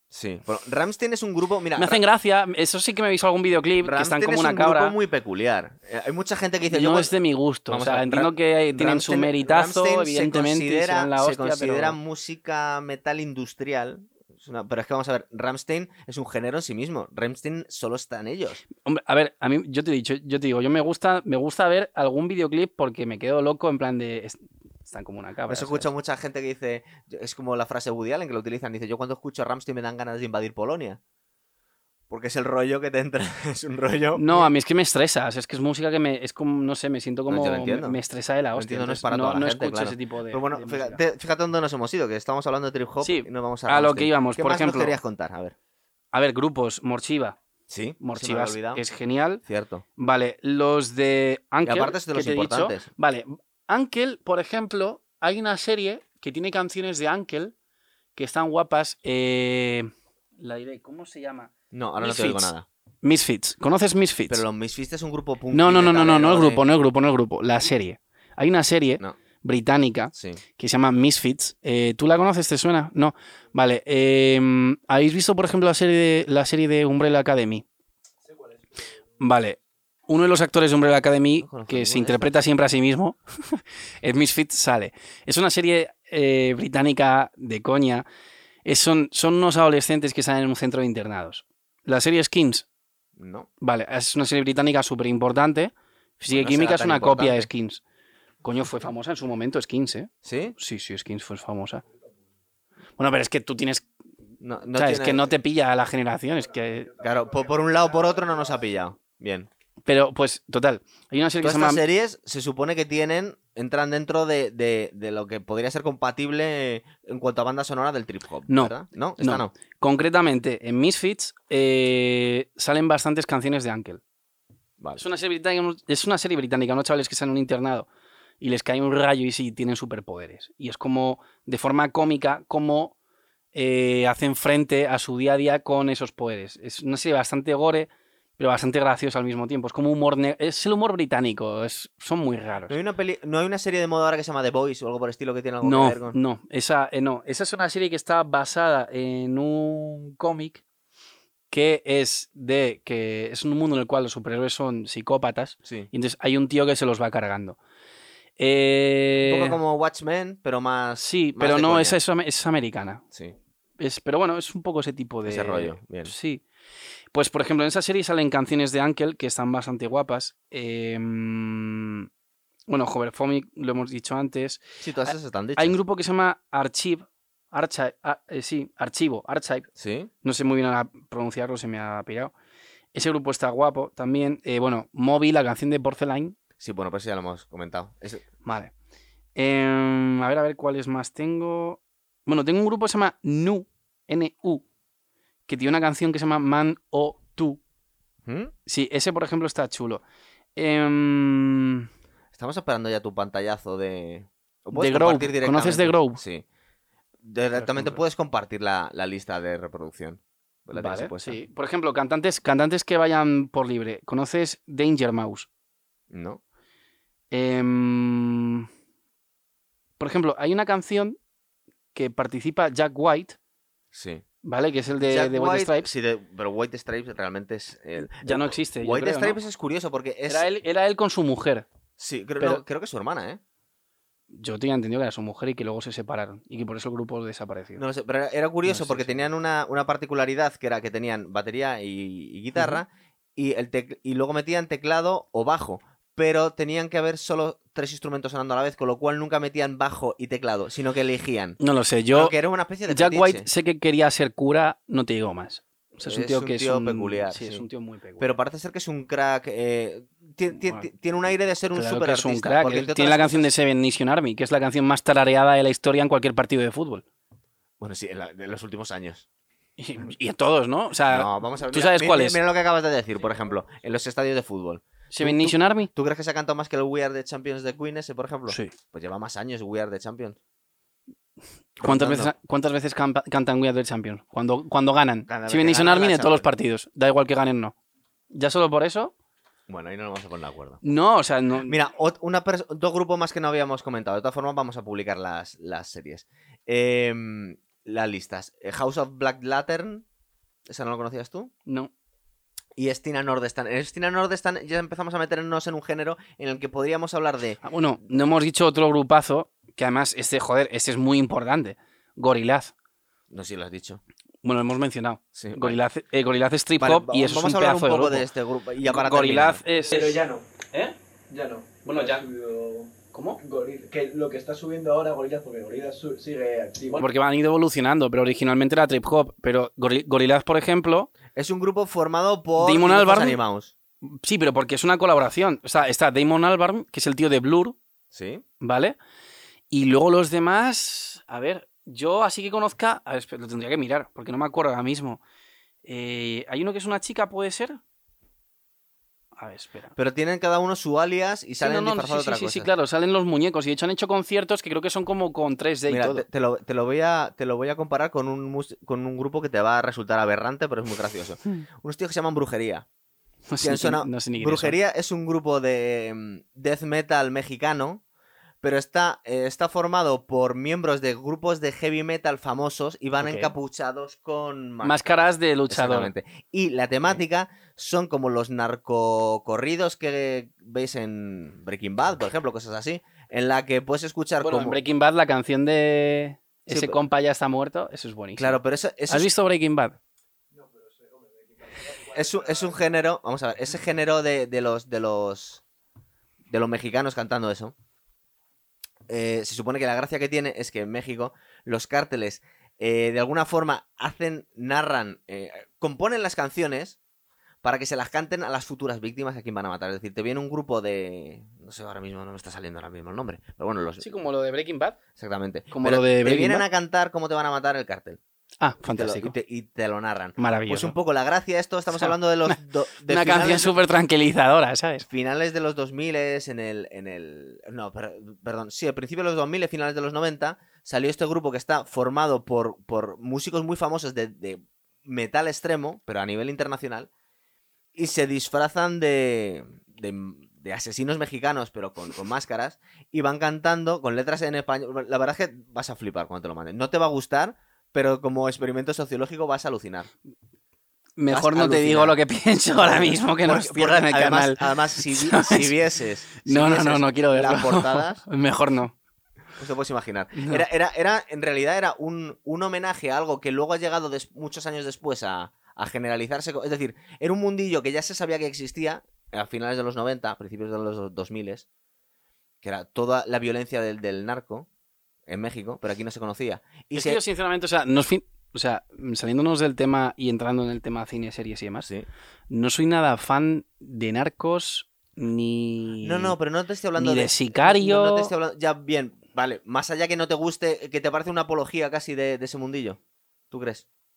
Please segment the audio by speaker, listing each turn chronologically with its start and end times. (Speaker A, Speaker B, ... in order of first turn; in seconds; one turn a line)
Speaker A: 0.1-2.0
Speaker B: 1.8-4.9
Speaker A: 3.8-7.1
Speaker B: 6.7-12.0
Speaker A: 7.7-18.6
Speaker B: 18.9-25.9
Speaker A: 25.5-31.0
Speaker A: 32.1-34.5
Speaker B: 34.2-41.0
Speaker A: 37.3-38.0
Speaker A: 38.5-45.5
Speaker B: 43.0-45.0
Speaker B: 46.1-47.4
Speaker A: 47.7-48.8
Speaker B: 48.0-49.4
Speaker A: 49.5-49.8
Speaker B: 50.0-57.5
Speaker A: 51.6-52.9
Speaker B: 58.1-62.5
Speaker A: 61.7-62.7
Speaker B: 63.0-64.4
Speaker A: 64.3-66.6
Speaker B: 65.5-77.7
Speaker A: 70.1-70.4
Speaker B: 79.2-88.1
Speaker A: 81.4-82.3
Speaker B: 88.7-92.7
Speaker A: 93.2-93.5
Speaker B: 93.6-97.8
Speaker A: 96.3-97.5
Speaker B: 98.4-101.8
Speaker A: 100.2-100.5
Speaker B: 103.0-103.9
Speaker A: 104.4-105.3
Speaker B: 104.7-106.9
Speaker C: 106.9-107.8
Speaker A: 107.0-109.5
Speaker B: 109.9-111.8
Speaker A: 111.4-119.5
Speaker B: 118.5-124.0
Speaker B: 125.0-127.9
Speaker B: 128.4-132.9
Speaker B: 133.5-142.8
Speaker A: 142.7-146.2
Speaker B: 145.6-150.6
Speaker B: 151.5-157.6
Speaker A: 155.7-155.9
Speaker B: 158.4-159.6
Speaker A: 159.2-162.0
Speaker B: 161.0-163.1
Speaker B: 163.8-166.4
Speaker A: 165.3-166.1
Speaker B: 167.1-172.1
Speaker B: 172.7-179.7
Speaker A: 174.8-175.8
Speaker A: 179.8-180.1
Speaker B: 180.2-182.3
Speaker B: 182.9-186.4
Speaker A: 186.6-188.2
Speaker B: 188.4-188.7
Speaker B: 189.3-194.6
Speaker B: 195.5-197.6
Speaker A: 198.2-198.5
Speaker B: 198.7-200.0
Speaker B: 200.6-201.9
Speaker A: 202.3-206.4
Speaker B: 204.7-206.2
Speaker A: 207.2-211.4
Speaker B: 207.6-208.0
Speaker B: 210.7-215.5
Speaker A: 216.1-216.4
Speaker B: 217.3-218.7
Speaker B: 220.0-221.2
Speaker B: 221.9-223.4
Speaker A: 223.9-224.2
Speaker B: 224.4-225.9
Speaker A: 225.0-230.5
Speaker B: 228.2-229.4
Speaker B: 230.3-231.7
Speaker A: 232.0-233.4
Speaker B: 234.3-237.8
Speaker A: 237.8-251.6
Speaker B: 238.7-239.3
Speaker B: 242.5-242.8
Speaker B: 251.6-252.3
Speaker A: 252.1-253.5
Speaker B: 252.9-258.3
Speaker A: 256.0-257.7
Speaker A: 258.2-263.5
Speaker B: 261.8-267.1
Speaker A: 267.8-269.2
Speaker B: 269.8-272.4
Speaker A: 271.1-280.4
Speaker B: 275.1-275.9
Speaker B: 278.5-278.7
Speaker B: 281.8-287.8
Speaker A: 281.8-282.3
Speaker A: 285.3-286.5
Speaker B: 288.3-289.1
Speaker A: 289.7-290.8
Speaker B: 290.8-291.8
Speaker A: 291.6-300.1
Speaker A: 300.7-301.5
Speaker B: 301.7-301.9
Speaker A: 302.8-307.6
Speaker B: 307.6-312.7
Speaker A: 313.3-314.0
Speaker B: 314.4-318.3
Speaker A: 315.4-315.8
Speaker A: 316.8-319.6
Speaker B: 318.9-321.0
Speaker C: 319.9-320.5
Speaker C: 321.3-327.1
Speaker B: 321.9-322.2
Speaker B: 323.1-323.4
Speaker B: 326.9-331.1
Speaker A: 331.3-333.7
Speaker B: 332.6-333.4
Speaker B: 334.1-337.8
Speaker A: 338.1-338.4
Speaker B: 338.6-339.0
Speaker B: 339.7-345.2
Speaker B: 345.9-347.8
Speaker B: 349.4-350.0
Speaker A: 350.0-352.7
Speaker B: 351.6-356.2
Speaker A: 355.9-362.9
Speaker B: 363.5-364.8
Speaker A: 363.6-368.0
Speaker A: 368.6-384.8
Speaker B: 373.2-373.5
Speaker B: 374.8-376.1
Speaker B: 384.4-390.0
Speaker A: 386.7-387.0
Speaker A: 388.4-389.3
Speaker C: 390.5-392.9
Speaker A: 392.1-395.6
Speaker A: 396.5-397.7
Speaker A: 399.1-407.0
Speaker A: 407.6-414.1
Speaker B: 414.0-415.0
Speaker A: 415.2-418.2
Speaker B: 415.7-416.6
Speaker B: 418.6-419.3
Speaker A: 418.9-423.8
Speaker B: 420.4-420.9
Speaker B: 421.9-425.1
Speaker A: 425.1-437.1
Speaker A: 437.9-450.1
Speaker B: 451.2-455.7
Speaker A: 451.3-452.2
Speaker A: 452.8-458.2
Speaker B: 456.4-458.9
Speaker A: 459.6-471.7
Speaker B: 460.3-460.6
Speaker A: 472.6-474.7
Speaker A: 475.3-477.2
Speaker B: 476.9-481.9
Speaker B: 482.5-486.4
Speaker A: 486.0-493.0
Speaker B: 487.0-488.3
Speaker A: 493.5-493.9